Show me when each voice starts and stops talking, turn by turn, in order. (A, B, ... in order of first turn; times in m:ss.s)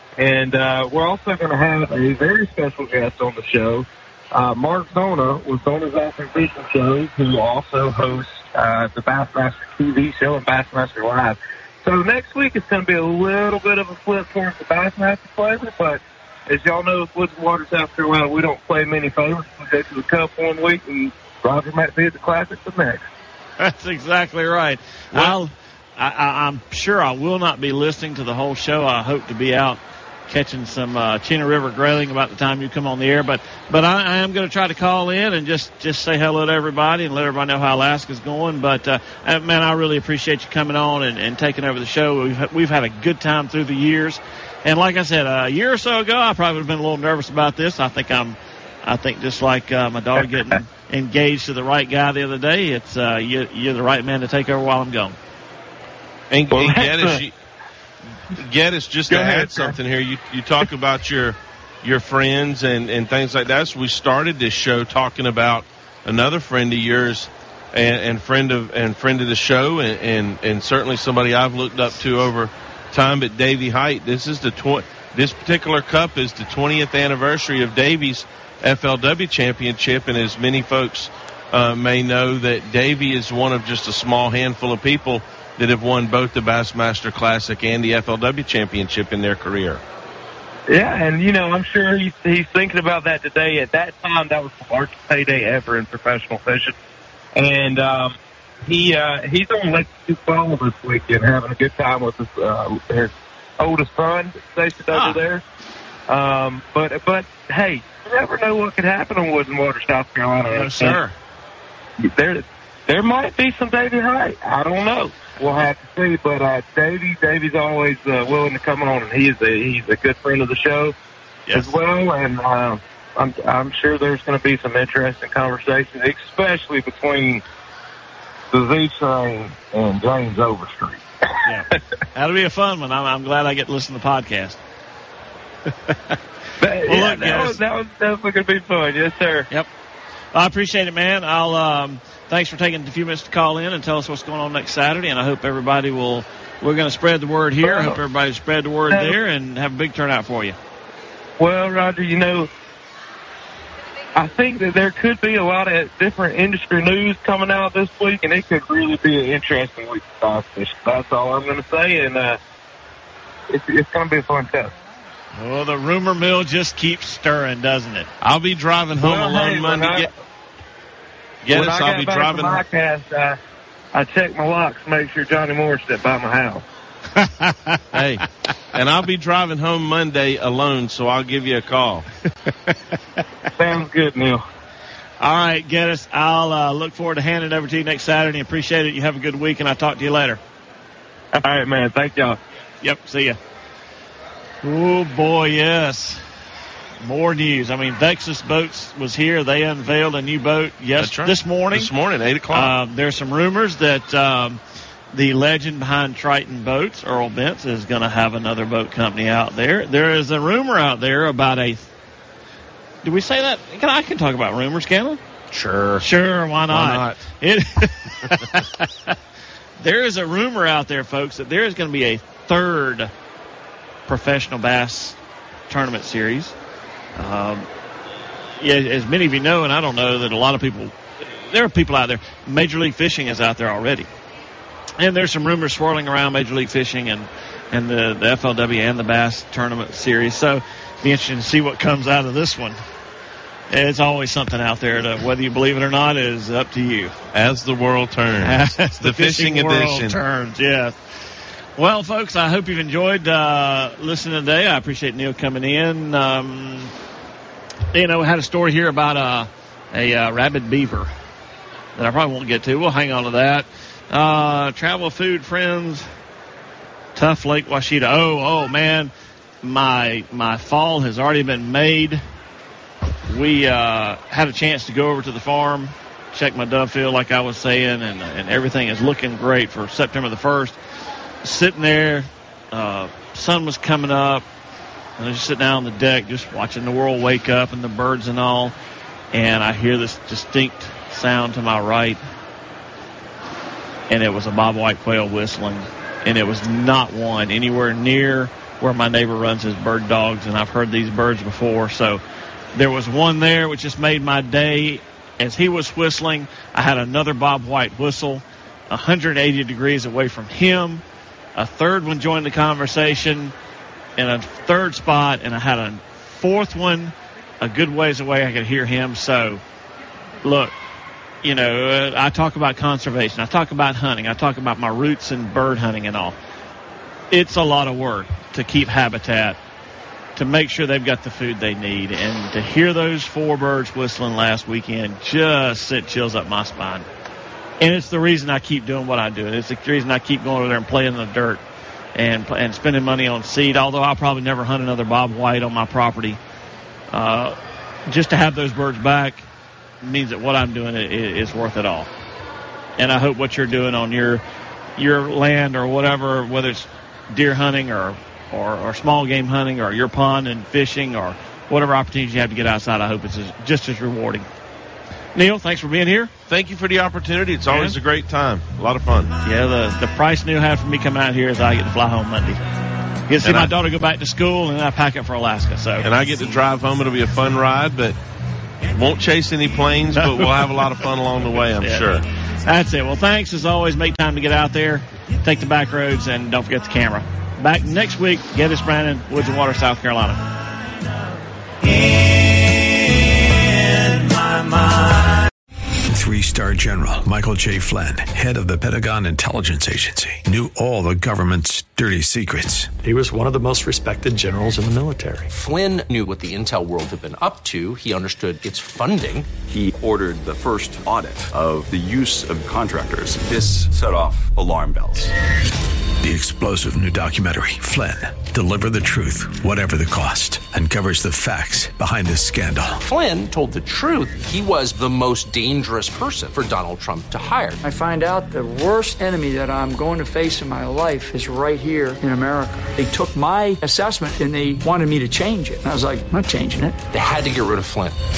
0:00.2-0:23.0 A
0:23.6-0:55.2 B
0:56.3-0:57.3 C
0:56.5-0:57.2 A
0:58.3-1:29.8 C
0:59.1-0:59.8 A
1:30.7-1:36.7 A
1:37.3-1:45.4 A
1:44.9-1:45.2 B
1:46.1-1:51.0 A
1:50.5-1:51.1 B
1:52.0-2:00.9 A
2:01.5-2:01.8 B
2:01.5-2:07.4 A
2:08.5-2:11.5 A
2:11.4-2:14.6 B
2:15.9-2:16.1 B
2:16.6-2:19.5 A
2:16.8-2:17.6 B
2:20.3-2:30.6 B
2:27.6-2:28.0 A
2:28.9-2:29.2 A
2:31.4-2:32.5 A
2:34.1-2:42.4 A
2:43.5-2:44.7 A
2:45.4-2:48.1 B
2:48.2-2:50.1 C
2:48.9-2:50.1 A
2:51.4-2:52.6 C
2:51.4-2:53.4 A
2:53.9-2:56.6 A
2:57.2-2:57.8 B
2:57.9-3:02.1 C
3:03.6-3:04.4 A
3:05.2-3:10.4 B
3:11.3-3:12.4 A
3:12.8-3:13.4 B
3:14.6-3:16.2 B
3:17.0-3:21.9 B
3:21.0-3:22.7 C
3:22.5-3:24.6 B
3:25.1-3:31.9 B
3:33.0-3:35.2 B
3:35.5-3:36.1 C
3:36.0-3:39.1 B
3:36.7-3:37.2 C
3:38.2-3:38.6 C
3:39.8-3:43.1 B
3:44.1-3:45.2 B
3:45.7-3:46.5 B
3:47.2-3:47.6 B
3:48.6-3:54.1 B
3:55.0-4:02.8 B
4:03.7-4:07.1 B
4:07.3-4:10.2 C
4:08.4-4:10.9 B
4:11.8-4:16.9 B
4:17.9-4:21.1 B
4:21.9-4:26.0 B
4:27.1-4:29.1 B
4:29.6-4:32.2 B
4:33.3-4:40.8 B
4:41.4-4:44.4 B
4:45.2-4:48.7 B
4:49.3-4:52.2 B
4:54.1-5:02.2 B
5:02.7-5:11.0 B
5:11.6-5:13.5 B
5:14.2-5:19.6 B
5:20.4-5:20.7 B
5:21.4-5:26.3 B
5:27.3-5:29.6 B
5:30.4-5:37.0 B
5:37.8-5:41.6 B
5:42.2-5:46.4 B
5:47.1-5:47.6 B
5:48.1-5:49.4 B
5:50.0-5:52.1 B
5:53.0-5:54.4 B
5:55.0-6:04.5 B
6:05.3-6:06.3 B
6:06.5-6:09.3 C
6:07.7-6:08.0 B
6:09.4-6:12.6 B
6:13.3-6:16.1 B
6:13.4-6:13.7 C
6:16.0-6:18.2 C
6:18.9-6:22.2 C
6:20.2-6:20.8 B
6:21.8-6:22.1 B
6:22.6-6:30.4 B
6:34.2-6:35.1 B
6:36.1-6:42.9 D
6:43.0-6:45.5 E
6:45.5-6:49.5 F
6:49.6-6:55.3 G
6:56.2-7:03.0 D
7:03.0-7:07.8 F
7:07.8-7:17.0 H
7:17.1-7:18.2 F